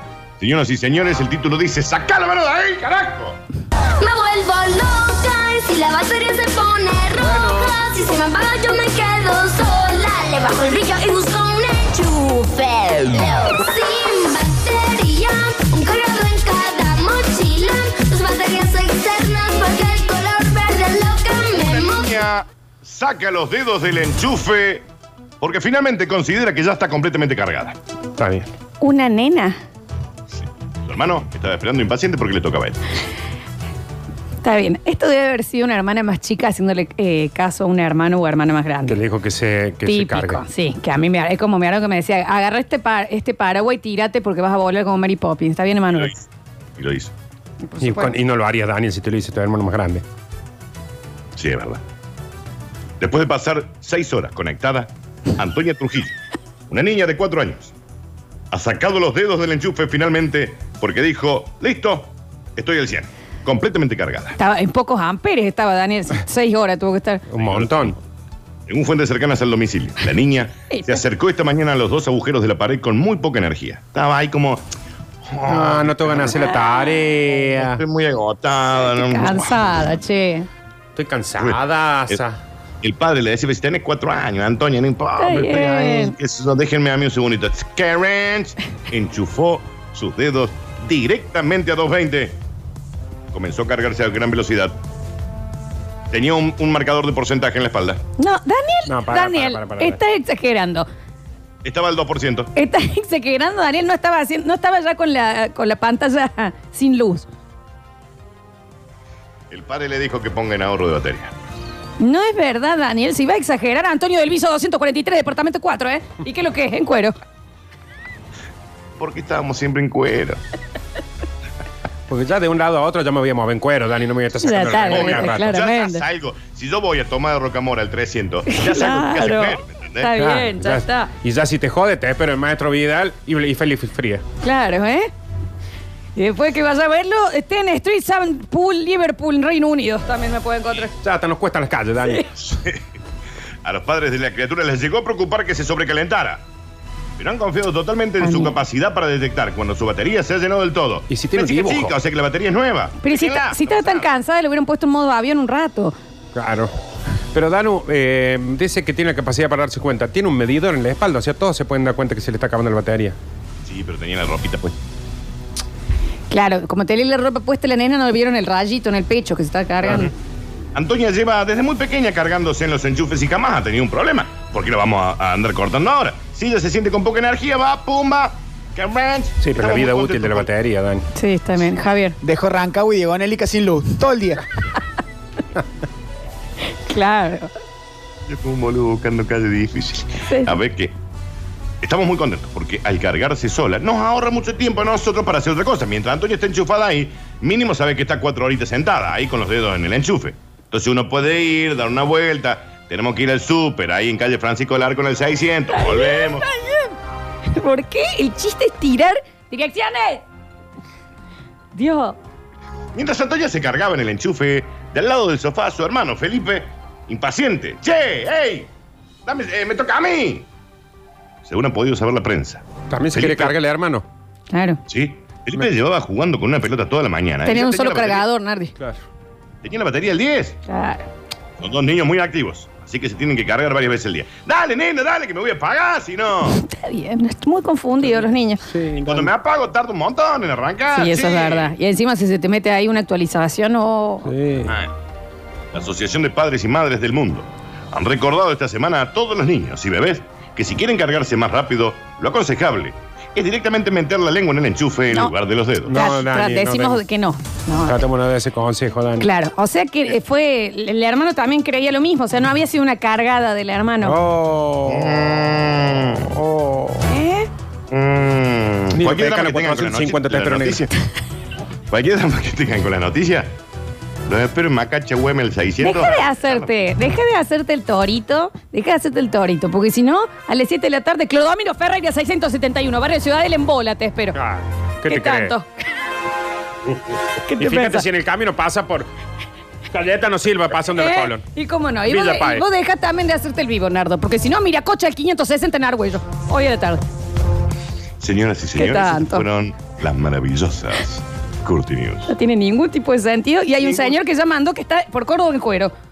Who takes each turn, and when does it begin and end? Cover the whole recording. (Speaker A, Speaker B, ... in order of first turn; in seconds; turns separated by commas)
Speaker A: 0.4-3.4, Speaker B: 4.0-22.1, Speaker A: 21.5-24.9, Speaker A: 25.4-27.8, Speaker C: 28.2-28.5, Speaker D: 28.8-29.6, Speaker A: 30.3-32.8, Speaker D: 34.4-39.0, Speaker C: 38.9-40.4, Speaker D: 39.9-46.1, Speaker A: 46.8-47.1, Speaker D: 47.6-48.2, Speaker C: 47.8-50.0, Speaker A: 51.4-51.8, Speaker A: 53.0-56.1, Speaker A: 56.7-57.7, Speaker A: 58.5-64.4, Speaker D: 64.4-67.3, Speaker C: 67.3-68.0, Speaker A: 67.4-68.0, Speaker A: 68.7-74.7, Speaker D: 70.7-71.0, Speaker A: 75.2-76.5, Speaker C: 75.5-77.8, Speaker D: 76.3-77.1, Speaker A: 77.4-79.8, Speaker D: 78.9-80.5, Speaker C: 81.0-82.4, Speaker A: 81.4-82.2, Speaker A: 82.8-92.4, Speaker D: 85.2-86.2, Speaker C: 85.4-85.8, Speaker A: 93.3-94.8, Speaker A: 96.1-98.0, Speaker D: 98.2-100.9, Speaker C: 98.9-100.0, Speaker A: 101.6-102.5, Speaker D: 102.5-107.3, Speaker A: 109.5-111.3, Speaker D: 112.0-117.2, Speaker A: 119.0-120.4, Speaker C: 122.1-125.5, Speaker D: 124.4-126.0, Speaker A: 124.8-130.1, Speaker D: 128.5-131.1, Speaker C: 130.2-134.2, Speaker D: 134.4-135.1, Speaker D: 136.2-140.9, Speaker C: 141.0-142.3, Speaker A: 142.4-142.8, Speaker A: 143.6-146.4, Speaker A: 147.2-154.1, Speaker D: 148.2-148.6, Speaker C: 151.1-151.9, Speaker D: 153.0-155.9, Speaker C: 156.3-156.7, Speaker C: 157.3-163.2, Speaker A: 163.7-164.8, Speaker D: 166.3-170.1, Speaker A: 170.7-180.5, Speaker C: 179.4-181.1, Speaker D: 181.1-182.2, Speaker E: 182.2-184.4, Speaker D: 186.7-187.5, Speaker A: 188.3-190.9, Speaker D: 190.2-190.6, Speaker A: 191.8-206.5, Speaker D: 205.7-210.2, Speaker D: 211.8-212.2, Speaker A: 212.9-218.7, Speaker A: 219.2-220.5, Speaker A: 221.4-223.6, Speaker C: 222.9-224.1, Speaker D: 224.5-224.8, Speaker A: 224.9-228.2, Speaker D: 227.4-228.7, Speaker A: 229.6-230.6, Speaker D: 230.7-231.1, Speaker A: 231.6-236.6, Speaker D: 236.5-238.7, Speaker C: 238.7-239.3, Speaker A: 239.0-241.7, Speaker D: 240.9-244.3, Speaker C: 244.3-244.7, Speaker A: 244.7-244.9, Speaker A: 245.7-255.9, Speaker C: 255.9-257.0, Speaker D: 255.9-258.1, Speaker C: 257.9-259.3, Speaker D: 259.2-264.2, Speaker C: 264.0-265.3, Speaker A: 264.9-266.3, Speaker C: 266.2-267.1, Speaker D: 267.1-267.5, Speaker A: 267.9-270.9, Speaker C: 268.9-270.9, Speaker A: 271.9-273.5, Speaker A: 274.3-276.7, Speaker D: 275.8-284.4, Speaker C: 284.4-285.5, Speaker D: 285.1-285.7, Speaker D: 287.4-288.1, Speaker C: 287.6-289.1, Speaker C: 289.9-291.4, Speaker D: 290.9-297.0, Speaker C: 292.1-292.7, Speaker A: 298.2-302.3, Speaker D: 298.8-299.5, Speaker D: 302.3-305.9